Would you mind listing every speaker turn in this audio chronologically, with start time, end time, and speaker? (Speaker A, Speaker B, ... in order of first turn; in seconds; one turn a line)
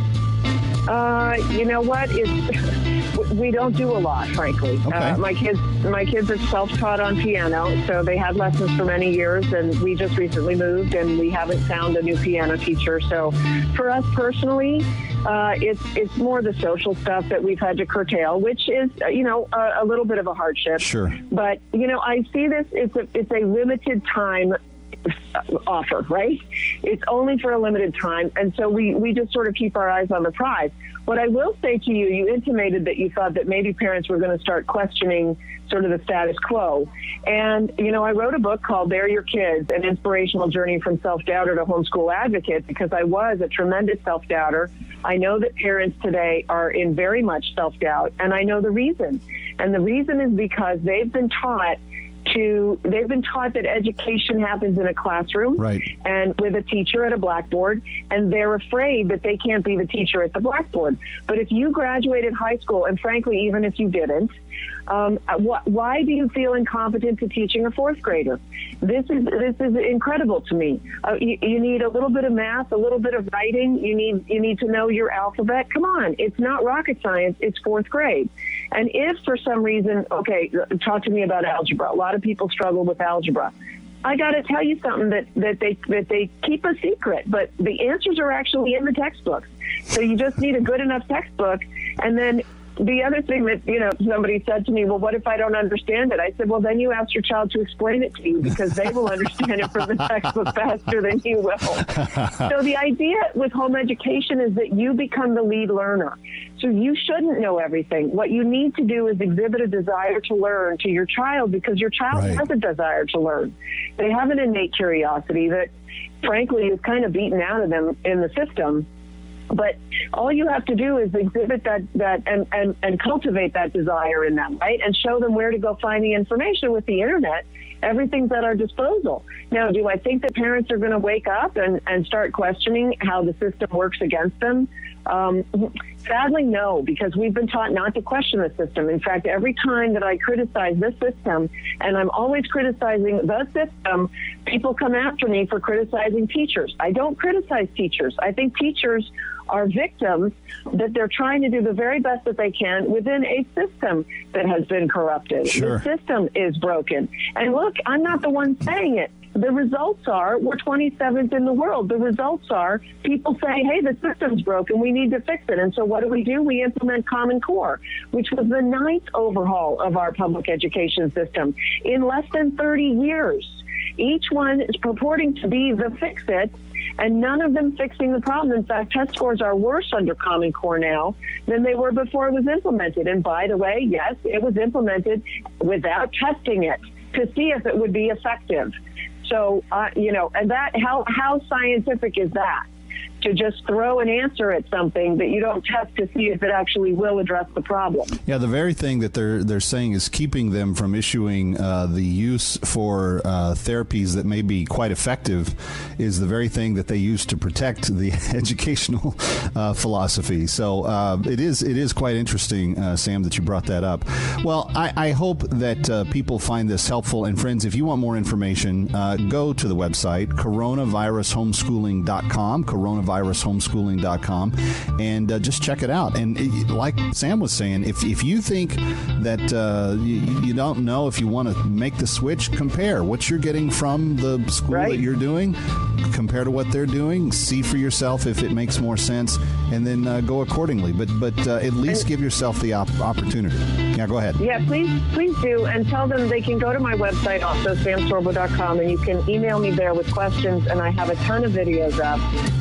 Speaker A: 0.9-2.6
Speaker A: 3.1-24.6
Speaker B: 4.9-5.2
Speaker B: 20.8-21.2
Speaker A: 25.1-64.3
Speaker B: 55.6-55.9
Speaker A: 64.9-83.5
Speaker A: 84.0-115.7
Speaker B: 112.1-112.4
Speaker A: 116.2-118.9
Speaker A: 119.5-192.6
Speaker B: 155.4-155.8
Speaker A: 193.2-198.1
Speaker B: 198.2-244.4
Speaker A: 234.7-235.0
Speaker A: 244.4-252.2